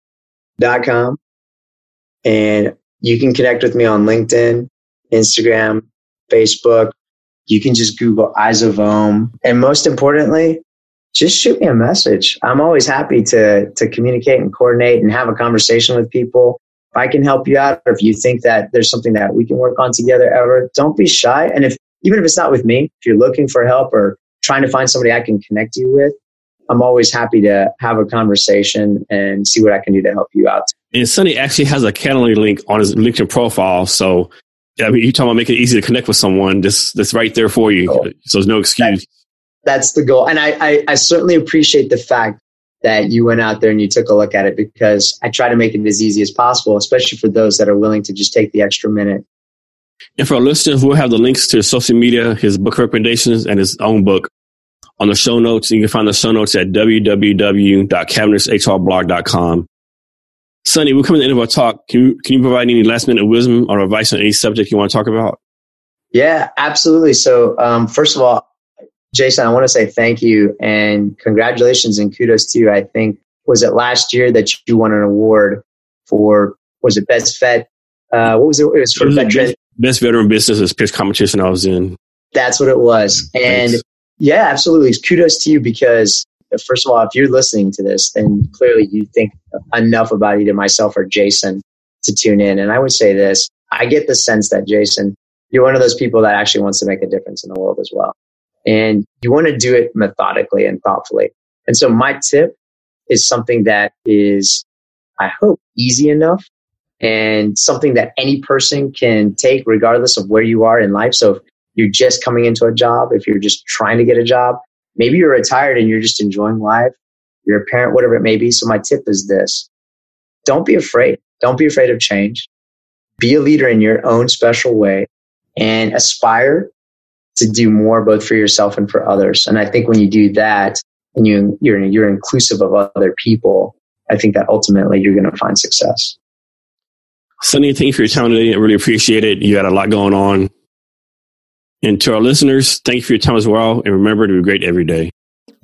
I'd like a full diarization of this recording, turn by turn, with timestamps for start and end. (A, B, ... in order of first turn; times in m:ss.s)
0:00.6-0:01.2 A
0:02.2-0:06.9 A
0:07.5-0:10.6 A
0:11.1-0:26.2 A
0:26.7-0:30.7 A
0:30.9-0:39.1 B
0:39.6-0:49.2 A
0:50.2-0:54.3 B
0:55.0-0:59.7 B
1:00.6-1:05.4 B
1:06.1-1:08.5 A
1:09.1-1:19.5 A
1:19.0-1:22.0 B
1:22.3-1:38.2 A
1:23.5-1:23.8 B
1:38.7-1:42.5 A
1:43.1-1:44.6 A
1:45.2-1:46.4 A
1:47.0-1:56.9 A
1:57.4-1:59.7 A
2:00.5-2:02.5 A
2:03.2-2:06.7 A
2:07.4-2:16.2 A
2:17.4-2:20.5 B
2:21.8-2:25.1 B